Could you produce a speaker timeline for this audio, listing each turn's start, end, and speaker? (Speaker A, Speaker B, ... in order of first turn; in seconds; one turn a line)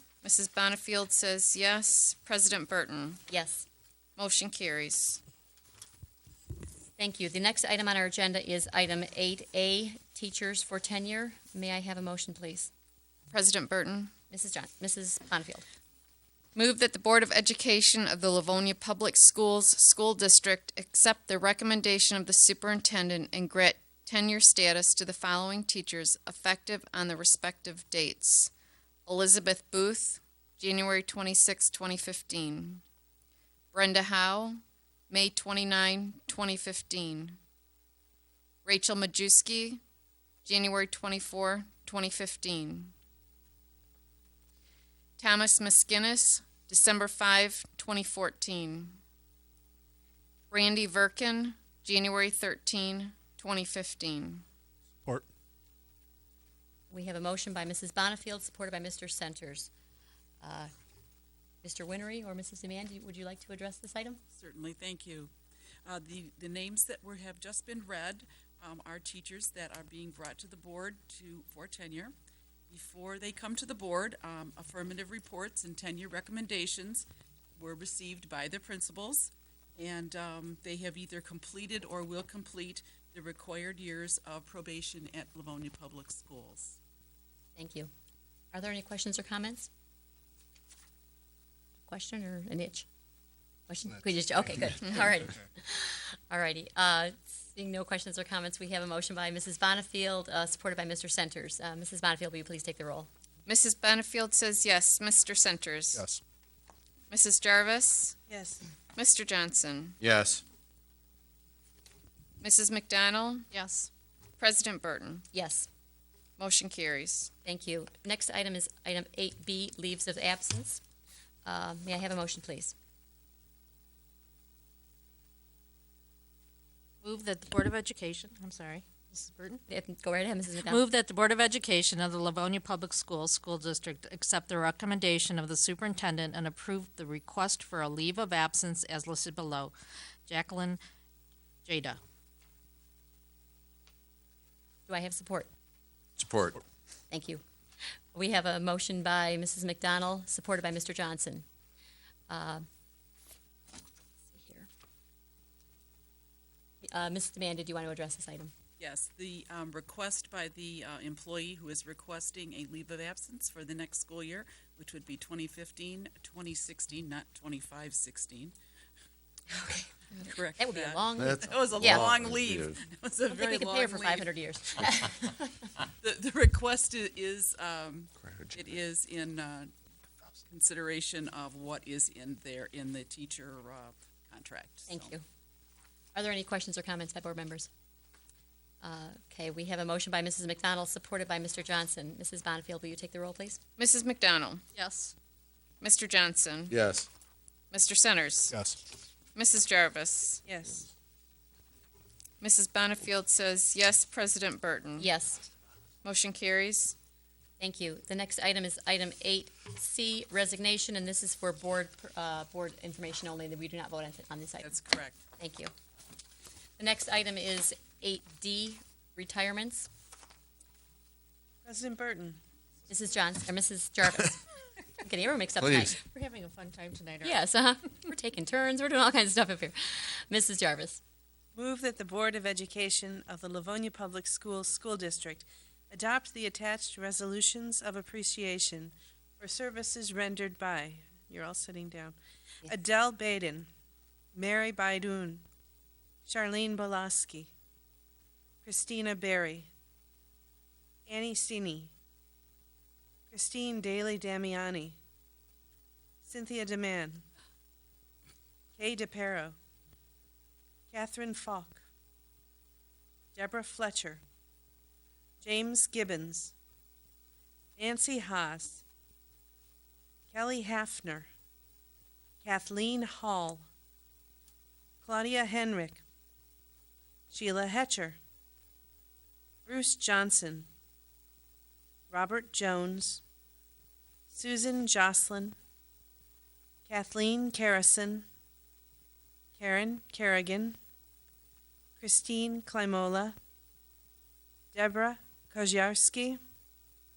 Speaker A: 0.2-3.2
Speaker B: 3.3-3.7
Speaker A: 4.2-5.2
Speaker B: 7.0-12.7
Speaker A: 13.3-14.1
Speaker B: 14.3-15.7
Speaker A: 16.6-28.5
Speaker A: 29.1-32.8
Speaker A: 33.7-37.4
Speaker A: 38.6-39.8
Speaker A: 40.5-42.9
Speaker A: 45.2-49.0
Speaker A: 50.5-54.5
Speaker B: 56.9-59.7
Speaker B: 60.4-60.7
Speaker B: 61.6-64.2
Speaker C: 64.3-65.3
Speaker C: 65.8-72.1
Speaker C: 72.7-77.1
Speaker C: 77.6-86.8
Speaker B: 87.6-87.9
Speaker B: 88.5-89.7
Speaker B: 91.9-92.9
Speaker B: 93.7-103.1
Speaker A: 103.5-106.0
Speaker D: 105.9-106.2
Speaker A: 107.1-108.2
Speaker E: 108.3-108.6
Speaker A: 109.0-110.0
Speaker D: 110.0-110.4
Speaker A: 112.4-113.5
Speaker F: 113.5-113.9
Speaker A: 114.4-115.3
Speaker B: 115.3-115.7
Speaker A: 116.4-117.3
Speaker B: 117.5-120.8
Speaker B: 121.5-122.8
Speaker F: 127.0-129.6
Speaker B: 129.7-130.8
Speaker F: 130.6-139.7
Speaker F: 140.3-140.8
Speaker F: 141.7-142.0
Speaker B: 144.9-145.5
Speaker D: 146.2-146.6
Speaker B: 147.1-147.4
Speaker B: 148.1-151.4
Speaker B: 152.3-152.6
Speaker B: 154.3-154.7
Speaker B: 156.8-158.5
Speaker C: 158.8-168.5
Speaker B: 169.5-172.2
Speaker C: 170.2-174.3
Speaker D: 171.2-172.8
Speaker B: 173.3-175.6
Speaker C: 176.0-179.7
Speaker D: 178.2-178.6
Speaker C: 180.5-185.1
Speaker B: 184.9-185.2
Speaker B: 186.2-187.7
Speaker B: 188.8-193.6
Speaker A: 193.8-194.6
Speaker F: 194.7-195.1
Speaker A: 195.8-196.8
Speaker D: 196.7-197.1
Speaker A: 197.7-198.5
Speaker D: 198.5-198.8
Speaker A: 199.3-200.4
Speaker E: 200.4-200.9
Speaker A: 202.4-205.1
Speaker B: 205.0-205.4
Speaker A: 206.0-207.0
Speaker B: 207.6-214.7
Speaker C: 214.6-215.2
Speaker B: 215.4-215.7
Speaker B: 216.8-219.9
Speaker E: 221.6-222.4
Speaker B: 222.9-226.0
Speaker D: 225.6-226.0
Speaker F: 226.0-227.4
Speaker B: 227.2-231.0
Speaker E: 231.6-243.7
Speaker E: 244.3-245.4
Speaker E: 246.3-247.5
Speaker E: 248.6-249.7
Speaker E: 251.1-251.9
Speaker E: 253.3-255.0
Speaker E: 256.2-257.2
Speaker E: 258.8-259.6
Speaker E: 260.9-261.8
Speaker E: 263.4-264.2
Speaker E: 265.4-266.5
Speaker E: 267.8-268.8
Speaker E: 270.3-271.3
Speaker E: 272.4-273.7
Speaker E: 275.0-276.0
Speaker E: 277.3-278.2
Speaker E: 279.7-280.7
Speaker E: 282.1-283.2
Speaker E: 284.3-285.6
Speaker E: 286.9-288.2
Speaker E: 289.6-290.8
Speaker E: 292.0-293.4
Speaker E: 294.7-296.4